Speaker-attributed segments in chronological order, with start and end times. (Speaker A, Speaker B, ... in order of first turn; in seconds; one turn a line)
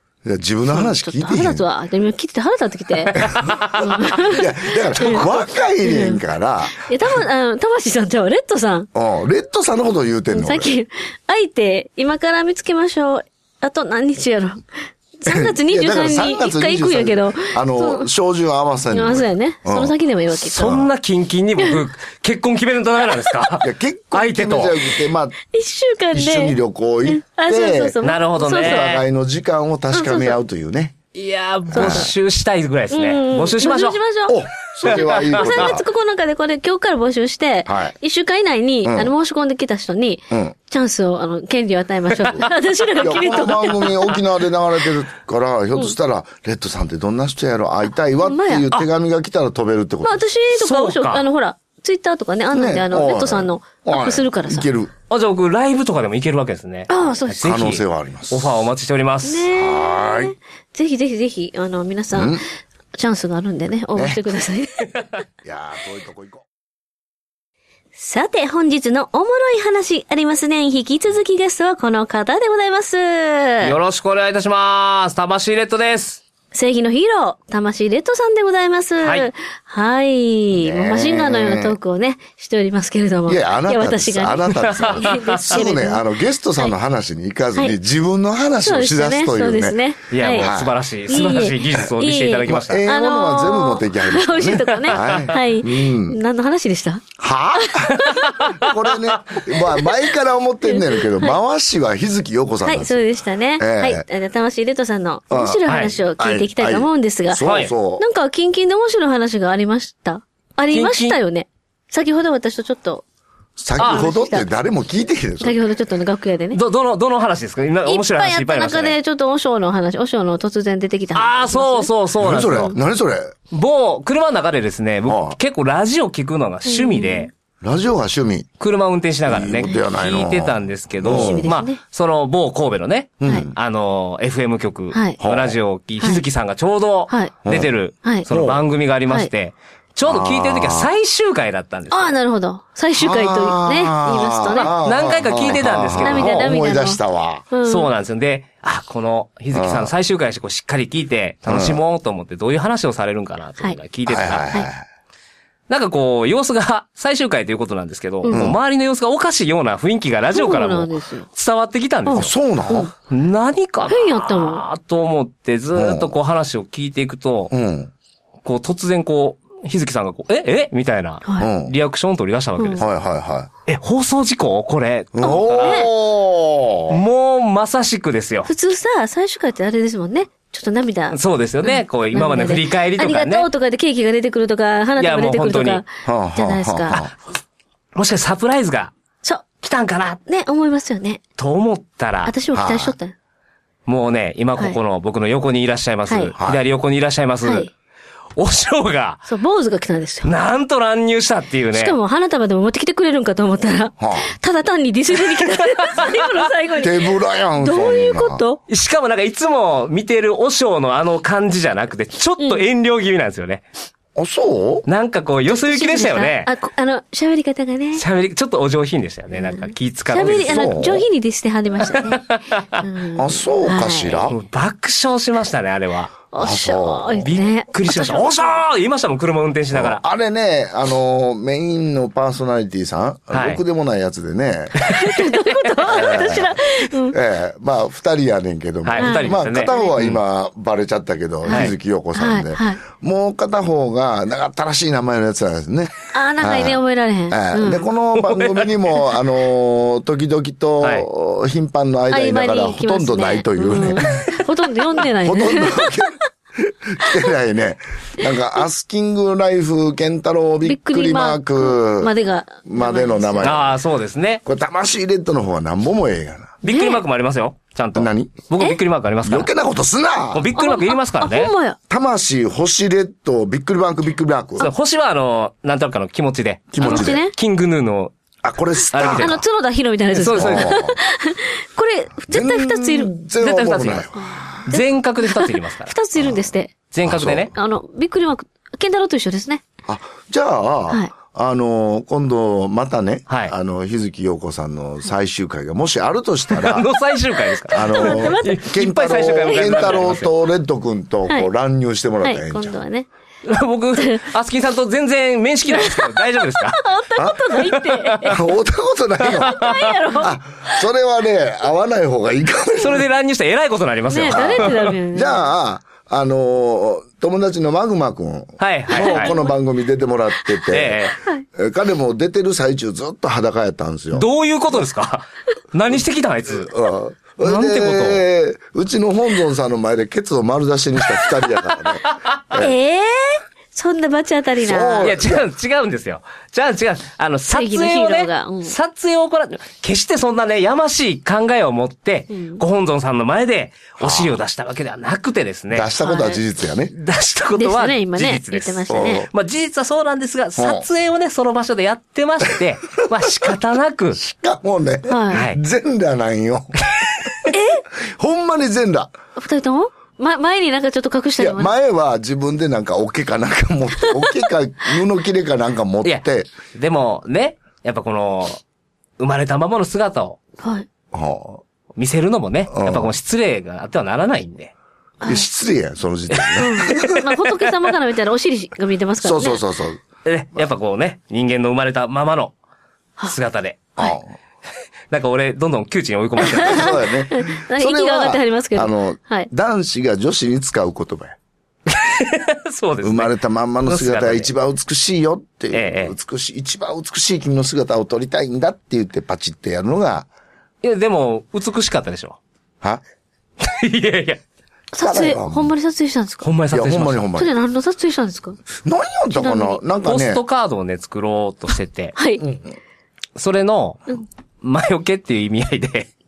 Speaker A: 0.2-1.6
Speaker B: 0.7-5.2
Speaker A: 3.2-6.9
Speaker C: 3.2-3.9
Speaker B: 5.8-6.2
Speaker B: 6.7-8.9
Speaker A: 8.9-10.7
Speaker B: 10.3-14.6
Speaker B: 15.2-18.1
Speaker A: 15.3-19.9
Speaker B: 18.9-20.7
Speaker C: 20.4-24.9
Speaker A: 20.6-20.9
Speaker A: 23.6-25.4
Speaker B: 25.4-28.9
Speaker A: 26.1-28.0
Speaker C: 28.0-29.0
Speaker A: 28.5-30.9
Speaker B: 29.9-30.4
Speaker C: 31.1-34.0
Speaker A: 31.7-32.1
Speaker B: 31.7-32.1
Speaker B: 32.9-44.2
Speaker A: 34.3-35.8
Speaker C: 34.8-35.7
Speaker A: 37.7-37.9
Speaker A: 38.8-39.1
Speaker A: 40.3-40.5
Speaker A: 43.0-50.2
Speaker B: 48.2-48.7
Speaker B: 50.0-54.7
Speaker C: 50.5-51.2
Speaker A: 52.5-54.9
Speaker C: 55.1-59.5
Speaker B: 56.9-57.6
Speaker A: 57.4-58.7
Speaker B: 59.2-62.4
Speaker A: 59.5-60.3
Speaker A: 62.1-62.4
Speaker B: 62.9-64.9
Speaker A: 63.9-64.3
Speaker A: 65.4-66.4
Speaker B: 67.9-73.7
Speaker C: 73.6-76.2
Speaker B: 76.5-86.0
Speaker C: 79.0-79.3
Speaker A: 80.5-81.8
Speaker A: 83.3-89.8
Speaker C: 84.5-85.7
Speaker B: 88.6-90.5
Speaker C: 90.1-92.8
Speaker A: 90.3-90.8
Speaker B: 91.1-97.0
Speaker A: 92.5-96.2
Speaker C: 94.9-95.3
Speaker A: 97.2-103.0
Speaker B: 97.6-98.6
Speaker C: 98.1-99.2
Speaker B: 99.6-100.0
Speaker B: 100.6-101.3
Speaker B: 102.6-107.4
Speaker A: 103.6-104.0
Speaker A: 105.3-105.6
Speaker C: 105.7-106.0
Speaker A: 106.2-108.0
Speaker C: 107.4-107.7
Speaker B: 108.0-113.0
Speaker C: 110.7-111.2
Speaker A: 113.6-115.6
Speaker B: 113.8-114.5
Speaker C: 113.8-114.1
Speaker B: 115.4-116.6
Speaker C: 116.5-119.0
Speaker B: 117.8-121.9
Speaker C: 121.1-122.7
Speaker A: 122.2-123.3
Speaker B: 122.5-122.7
Speaker C: 123.5-127.3
Speaker A: 125.0-125.3
Speaker B: 126.7-127.3
Speaker A: 127.6-128.5
Speaker C: 128.6-142.1
Speaker A: 129.3-131.5
Speaker B: 131.1-131.8
Speaker A: 133.2-133.5
Speaker B: 134.9-135.2
Speaker A: 135.2-135.6
Speaker A: 137.4-137.7
Speaker A: 138.3-138.6
Speaker A: 140.1-140.9
Speaker B: 141.9-144.7
Speaker A: 142.9-147.5
Speaker C: 144.5-146.5
Speaker B: 146.0-147.9
Speaker C: 147.6-154.5
Speaker A: 149.5-149.9
Speaker A: 151.5-151.8
Speaker A: 154.1-154.8
Speaker C: 155.7-162.3
Speaker B: 158.2-158.5
Speaker A: 158.3-158.6
Speaker B: 160.3-161.3
Speaker B: 162.1-162.9
Speaker A: 162.1-162.9
Speaker C: 163.0-167.5
Speaker B: 163.9-164.6
Speaker A: 165.7-166.1
Speaker A: 167.5-167.9
Speaker C: 168.4-172.9
Speaker B: 171.2-171.5
Speaker A: 171.4-171.7
Speaker B: 172.6-172.8
Speaker A: 172.8-173.5
Speaker C: 173.7-175.9
Speaker A: 175.1-177.0
Speaker B: 175.2-175.9
Speaker C: 176.9-178.5
Speaker B: 178.4-187.0
Speaker C: 181.1-183.5
Speaker C: 185.0-185.8
Speaker A: 186.0-187.1
Speaker C: 186.9-187.1
Speaker C: 187.9-188.9
Speaker C: 189.6-190.2
Speaker B: 190.3-191.2
Speaker C: 191.4-192.3
Speaker B: 192.2-193.1
Speaker A: 192.5-192.9
Speaker C: 193.8-197.7
Speaker B: 196.1-196.3
Speaker B: 197.4-197.7
Speaker C: 198.4-199.2
Speaker B: 199.3-200.3
Speaker C: 200.2-201.9
Speaker B: 201.7-208.6
Speaker A: 204.0-204.3
Speaker C: 205.9-206.2
Speaker A: 206.8-208.4
Speaker C: 208.7-213.7
Speaker B: 212.4-212.6
Speaker A: 214.1-214.8
Speaker C: 214.8-216.5
Speaker B: 215.5-218.0
Speaker C: 217.9-220.8
Speaker B: 219.3-222.2
Speaker A: 220.2-221.0
Speaker C: 221.9-222.8
Speaker B: 222.8-224.2
Speaker A: 223.2-224.4
Speaker C: 224.3-226.2
Speaker B: 226.3-228.3
Speaker A: 226.4-227.3
Speaker C: 227.2-230.0
Speaker A: 229.7-234.9
Speaker C: 233.3-233.6
Speaker C: 234.8-235.8
Speaker B: 234.9-237.2
Speaker A: 235.8-236.6
Speaker A: 237.1-254.4
Speaker C: 238.8-240.2
Speaker B: 239.0-239.9
Speaker B: 241.4-242.8
Speaker B: 246.1-247.9
Speaker C: 248.2-249.1
Speaker C: 250.8-251.1
Speaker B: 252.1-256.2
Speaker A: 255.0-262.1
Speaker B: 260.6-263.6
Speaker A: 262.7-263.8
Speaker C: 263.4-264.4
Speaker A: 264.4-266.6
Speaker C: 266.6-269.5
Speaker B: 266.6-267.0
Speaker A: 267.9-268.5
Speaker A: 269.2-270.5
Speaker C: 270.3-271.5
Speaker B: 270.6-271.8
Speaker A: 271.9-274.7
Speaker C: 274.6-278.1
Speaker A: 276.7-277.2
Speaker B: 276.8-277.3
Speaker A: 278.4-279.4
Speaker C: 278.9-279.4
Speaker B: 279.1-283.1
Speaker C: 280.1-280.8
Speaker A: 280.4-281.0
Speaker A: 282.3-284.7
Speaker C: 283.4-285.9
Speaker B: 284.2-286.7
Speaker A: 286.2-286.5
Speaker C: 286.9-287.5
Speaker A: 287.0-287.5
Speaker B: 287.5-289.6
Speaker A: 289.9-296.9
Speaker C: 296.5-300.3
Speaker A: 297.7-302.8
Speaker B: 297.7-298.7
Speaker B: 299.3-300.0
Speaker B: 302.2-303.1
Speaker C: 303.4-306.8
Speaker B: 304.0-304.2
Speaker B: 305.7-308.4
Speaker A: 307.2-307.4
Speaker C: 307.5-308.4
Speaker A: 308.2-313.1
Speaker C: 309.2-309.9
Speaker B: 309.4-310.8
Speaker C: 312.8-314.9
Speaker B: 314.1-315.5
Speaker A: 314.3-324.3
Speaker C: 318.6-319.3
Speaker B: 318.9-319.6
Speaker C: 320.7-321.2
Speaker C: 324.1-326.7
Speaker A: 326.5-332.7
Speaker C: 327.4-328.2
Speaker C: 332.1-332.6
Speaker B: 332.6-335.1
Speaker A: 334.6-335.5
Speaker C: 335.0-345.9
Speaker B: 337.5-338.7
Speaker B: 342.3-342.6
Speaker A: 344.0-344.4
Speaker A: 345.7-346.9
Speaker B: 346.0-346.4
Speaker C: 346.9-354.2
Speaker B: 347.6-349.2
Speaker A: 348.9-349.3
Speaker A: 350.6-350.9
Speaker A: 353.2-353.5
Speaker A: 354.1-359.1
Speaker B: 355.1-355.4
Speaker C: 355.3-355.6
Speaker B: 357.5-357.8
Speaker B: 359.4-361.7
Speaker A: 361.4-366.5
Speaker C: 366.0-368.6
Speaker C: 369.2-370.4
Speaker B: 370.6-370.9
Speaker A: 371.1-371.6
Speaker C: 371.9-374.7
Speaker A: 372.7-373.1
Speaker B: 375.2-375.4
Speaker A: 375.2-377.1
Speaker C: 376.3-377.1
Speaker B: 376.6-379.6
Speaker A: 379.2-380.0
Speaker C: 380.2-382.5
Speaker C: 383.3-384.0
Speaker A: 384.0-384.3
Speaker C: 385.1-387.0
Speaker B: 386.4-389.5
Speaker A: 386.4-391.4
Speaker C: 391.9-394.5
Speaker A: 393.0-400.3
Speaker C: 395.7-396.1
Speaker C: 400.8-402.4
Speaker C: 403.6-404.4
Speaker B: 404.9-406.5
Speaker A: 405.0-405.7
Speaker C: 406.4-407.3
Speaker A: 406.7-407.5
Speaker B: 407.4-408.6
Speaker A: 408.8-410.4
Speaker B: 409.3-409.8
Speaker C: 410.0-412.1
Speaker B: 412.1-412.4
Speaker A: 412.4-412.7
Speaker C: 413.4-416.1